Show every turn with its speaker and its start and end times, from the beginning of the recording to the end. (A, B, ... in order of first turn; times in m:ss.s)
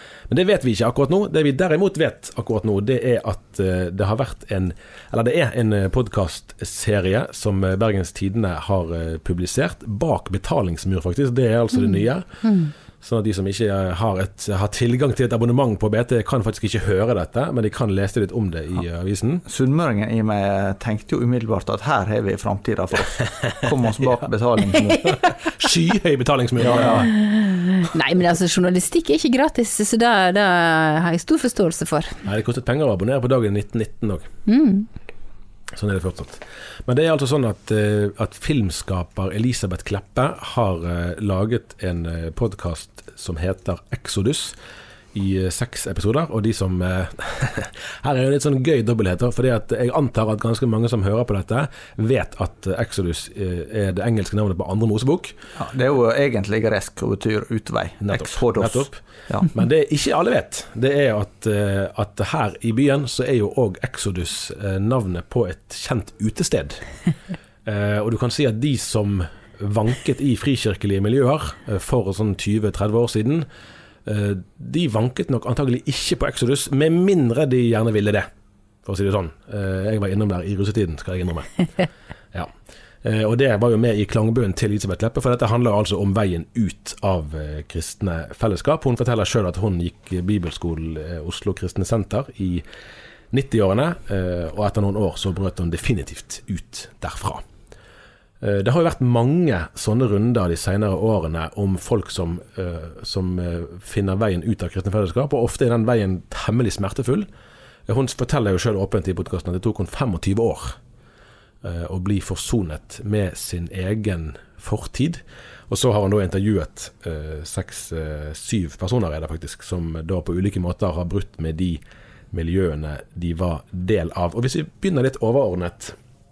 0:00.3-0:12.3 A
0:11.7-0:12.7 B
0:13.0-0:19.4 A
0:19.4-0:25.0 C
0:25.0-0:27.1 A
0:26.6-0:27.1 C
0:27.0-0:32.2 B
0:32.2-0:34.3 A
0:34.4-0:34.9 B
0:35.7-0:44.5 A
0:45.1-0:55.4 A
0:55.6-0:59.5 C
0:58.0-0:59.0 A
0:59.5-1:06.8 A
1:07.6-1:13.4 A
1:14.0-1:18.3 A
1:18.8-1:21.6 A
1:23.0-1:32.6 A
1:33.3-1:37.4 A
1:38.4-1:47.3 A
1:47.9-1:50.8 A
1:51.6-2:06.0 A